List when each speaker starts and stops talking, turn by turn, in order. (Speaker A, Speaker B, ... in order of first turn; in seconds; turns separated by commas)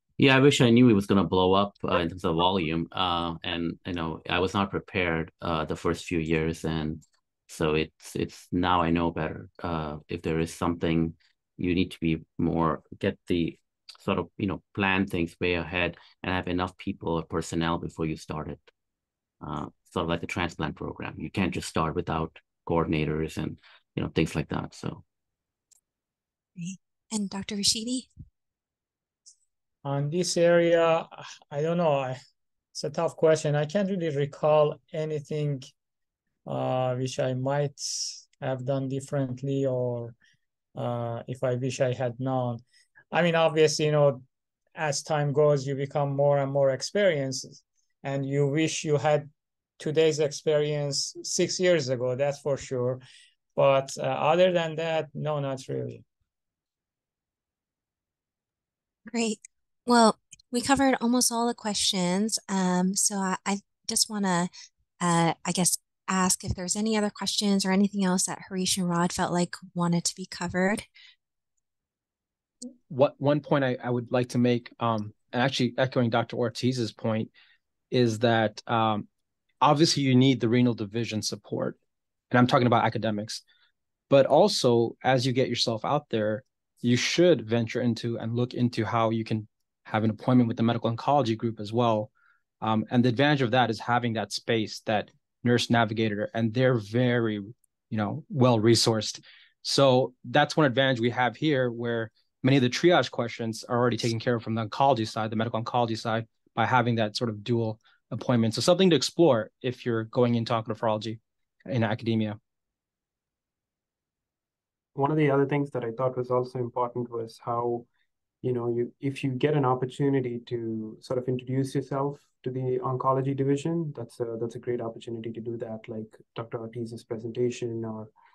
Speaker A: 0.2-18.6, Speaker A: 19.4-25.0, Speaker B: 26.6-28.1, Speaker C: 29.8-32.2, Speaker C: 32.7-35.7, Speaker C: 36.5-40.1, Speaker C: 40.8-42.6, Speaker C: 43.1-44.2, Speaker C: 44.8-53.0, Speaker C: 53.5-56.0, Speaker B: 59.1-70.8, Speaker D: 72.9-77.3, Speaker D: 77.9-79.0, Speaker D: 79.6-81.8, Speaker D: 82.3-83.4, Speaker D: 84.1-92.1, Speaker D: 92.6-112.4, Speaker E: 114.9-117.8, Speaker E: 118.4-128.1